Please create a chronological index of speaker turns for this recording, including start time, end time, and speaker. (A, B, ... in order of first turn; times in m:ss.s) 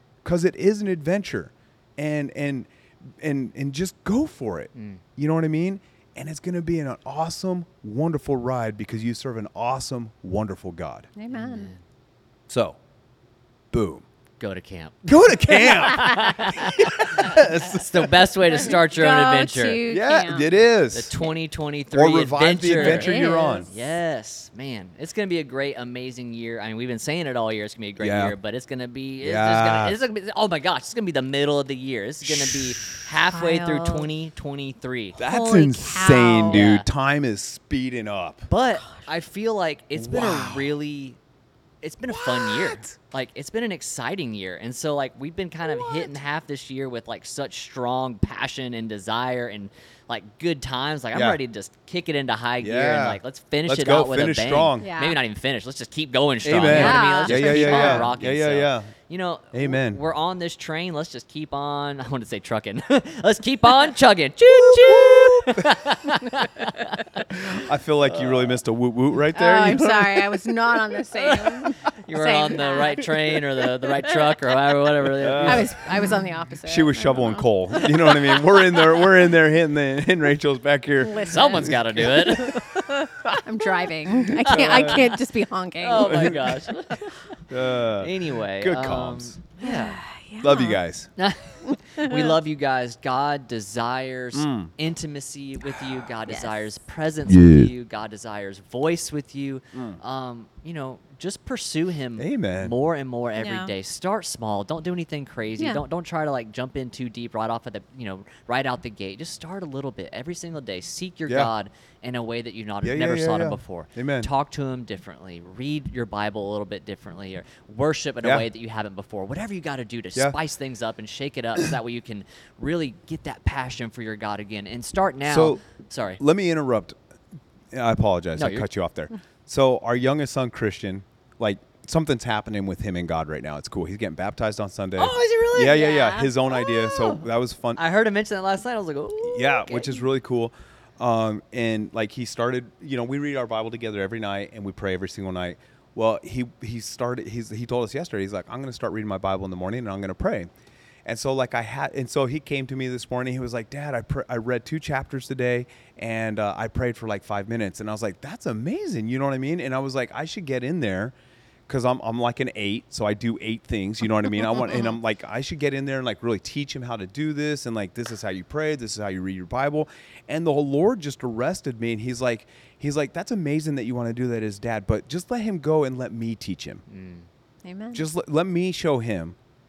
0:00.2-0:11.1 A
0:04.7-0:05.0 B
0:11.2-0:11.7 C
0:11.3-0:11.8 B
0:12.5-0:12.8 A
0:13.7-0:14.0 A
0:14.4-0:19.8 B
0:15.0-0:18.2 A
0:18.5-0:20.5 C
0:19.9-0:21.1 A
0:20.9-0:35.2 B
0:21.9-0:23.7 A
0:22.7-0:23.7 C
0:28.0-0:28.3 A
0:29.2-0:30.0 A
0:32.3-0:32.7 A
0:33.2-0:34.1 C
0:35.2-0:38.5 A
0:35.2-0:36.6 C
0:36.4-0:36.8 B
0:38.5-0:41.2 B
0:40.0-0:40.8 A
0:41.8-1:08.6 B
0:42.1-0:42.9 A
0:51.1-0:51.4 A
0:52.6-0:54.9 A
0:54.8-0:55.2 C
0:56.4-0:58.9 A
0:56.6-0:58.1 C
0:59.5-1:00.0 A
1:04.5-1:06.3 A
1:07.3-1:10.5 A
1:09.3-1:13.4 C
1:11.2-1:16.1 B
1:15.1-1:23.4 A
1:15.4-1:18.6 C
1:21.0-1:22.5 C
1:21.2-1:22.8 B
1:23.0-1:26.5 C
1:24.1-1:25.2 A
1:24.4-1:25.0 B
1:25.8-1:30.0 B
1:26.0-1:26.5 A
1:27.5-1:29.4 A
1:29.6-1:30.8 C
1:30.4-1:31.1 A
1:31.2-2:06.2 B
1:31.7-1:32.3 C
1:34.3-1:34.7 A
1:36.2-1:36.7 C
1:37.3-1:37.7 A
1:39.7-1:40.0 A
1:42.2-1:42.7 A
1:43.4-1:43.7 C
1:52.8-1:54.3 A
2:05.2-2:05.6 A
2:06.2-2:06.9 A
2:07.7-2:17.8 A
2:08.4-2:08.7 B
2:15.0-2:17.2 B
2:15.8-2:16.3 C
2:17.8-2:20.0 B
2:19.2-2:30.5 A
2:31.0-2:41.1 A
2:41.7-2:56.8 A
2:44.7-2:44.9 C
2:56.9-2:57.3 B
2:57.6-2:58.0 C
2:57.9-2:59.4 A